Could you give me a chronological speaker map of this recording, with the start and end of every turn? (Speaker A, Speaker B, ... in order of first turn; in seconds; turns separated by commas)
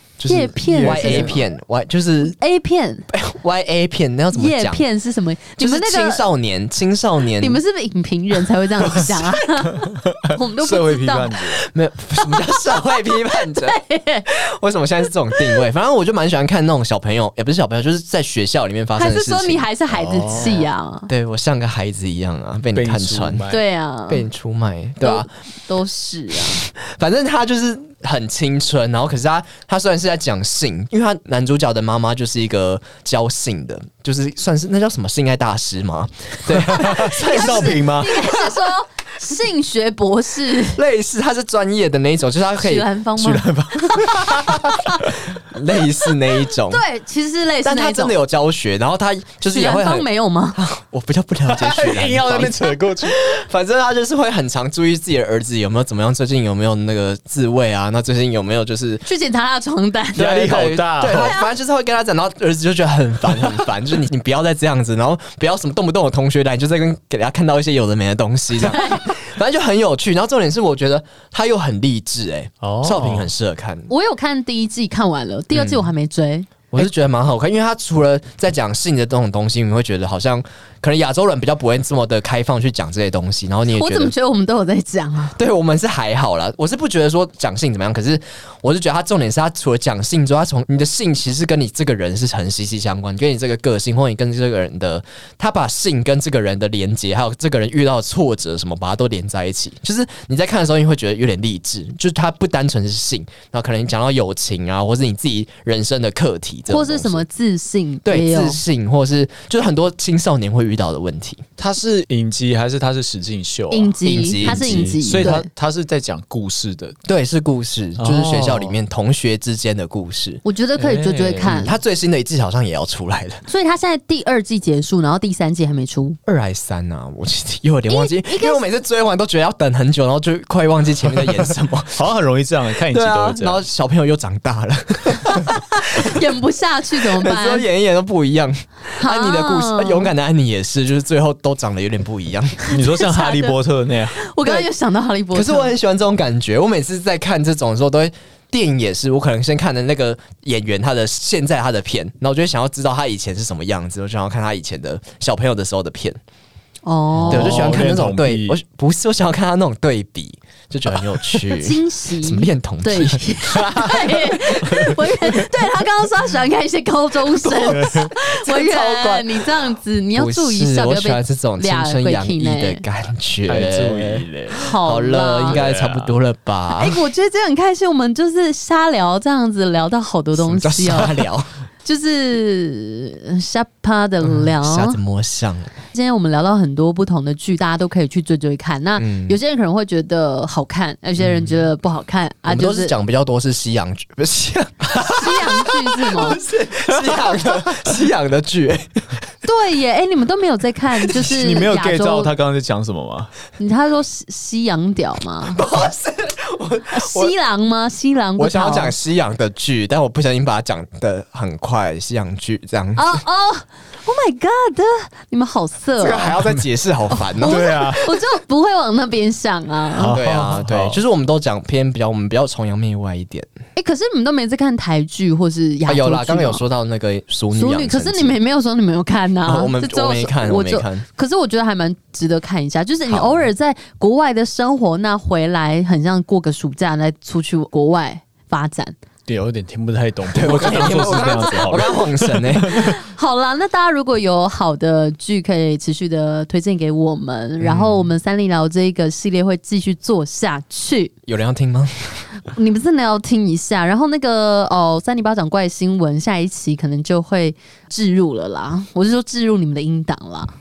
Speaker A: 0.2-2.4, Speaker B: 0.3-1.4, Speaker C: 0.7-1.4, Speaker B: 2.4-3.1, Speaker A: 3.1-4.8, Speaker B: 4.3-6.3, Speaker A: 5.6-7.6, Speaker B: 7.4-11.4, Speaker A: 8.9-9.2, Speaker C: 9.7-11.7, Speaker A: 11.7-13.8, Speaker B: 12.2-14.3, Speaker A: 14.3-23.4, Speaker B: 19.0-21.1, Speaker C: 20.2-20.6, Speaker C: 22.7-23.6, Speaker B: 23.5-24.3, Speaker A: 24.1-25.3, Speaker B: 25.0-26.6, Speaker A: 26.5-38.6, Speaker C: 36.5-38.2, Speaker B: 36.8-40.8, Speaker A: 40.7-42.9, Speaker B: 42.6-45.0, Speaker C: 43.2-45.3, Speaker A: 45.4-46.8, Speaker B: 46.5-48.2, Speaker A: 47.6-59.0, Speaker B: 49.5-50.6, Speaker C: 51.5-53.5, Speaker B: 59.1-60.4, Speaker C: 60.2-61.4, Speaker A: 60.2-73.9, Speaker B: 61.1-61.5, Speaker B: 68.6-69.1, Speaker C: 72.6-73.3, Speaker B: 73.9-76.9, Speaker A: 75.5-75.9, Speaker A: 76.7-84.1, Speaker B: 83.7-85.4, Speaker A: 85.4-107.2, Speaker B: 106.7-108.6, Speaker A: 108.1-111.5, Speaker C: 111.6-117.0, Speaker B: 113.7-115.5, Speaker A: 114.0-115.4, Speaker A: 117.1-120.4, Speaker C: 118.0-118.8, Speaker B: 120.5-121.8, Speaker C: 120.8-121.7, Speaker A: 121.5-123.4, Speaker B: 123.5-126.2, Speaker A: 126.3-132.0, Speaker B: 127.9-128.6, Speaker C: 131.9-133.6, Speaker A: 132.9-136.2, Speaker B: 135.8-137.7, Speaker A: 137.0-142.7, Speaker B: 139.0-140.1, Speaker C: 142.7-144.2, Speaker B: 142.7-143.6, Speaker B: 144.2-145.7, Speaker A: 144.4-144.7, Speaker A: 145.3-156.2, Speaker B: 156.9-158.0, Speaker C: 157.2-158.6, Speaker A: 157.3-164.0, Speaker C: 160.9-161.3, Speaker B: 161.5-172.8, Speaker C: 163.6-164.0, Speaker A: 164.7-164.9, Speaker A: 167.3-169.5, Speaker C: 167.7-168.1, Speaker A: 170.2-174.3, Speaker C: 173.4-174.7, Speaker B: 174.5-175.6, Speaker A: 174.8-177.0, Speaker C: 175.5-176.1, Speaker B: 176.7-181.2, Speaker A: 180.4-181.5, Speaker B: 181.8-185.0, Speaker A: 184.2-185.7, Speaker B: 185.9-192.9, Speaker A: 189.0-189.4, Speaker A: 191.2-191.5, Speaker A: 192.5-199.0, Speaker B: 195.0-196.4, Speaker C: 196.9-197.8, Speaker B: 199.4-202.3, Speaker C: 201.1-203.3, Speaker B: 203.6-205.7, Speaker A: 205.5-207.3, Speaker B: 206.9-208.9, Speaker A: 208.4-213.2, Speaker B: 213.0-216.4, Speaker A: 216.0-218.0, Speaker B: 217.4-220.2, Speaker C: 217.4-218.0, Speaker C: 220.0-221.0, Speaker A: 220.1-223.5, Speaker B: 223.8-226.6, Speaker A: 225.9-228.4, Speaker B: 227.5-238.9, Speaker A: 229.4-231.1, Speaker A: 233.1-233.5, Speaker C: 239.3-242.9, Speaker A: 240.3-243.0, Speaker B: 240.4-241.8, Speaker B: 242.7-251.1, Speaker A: 247.6-248.1, Speaker A: 251.3-252.3, Speaker B: 252.4-260.5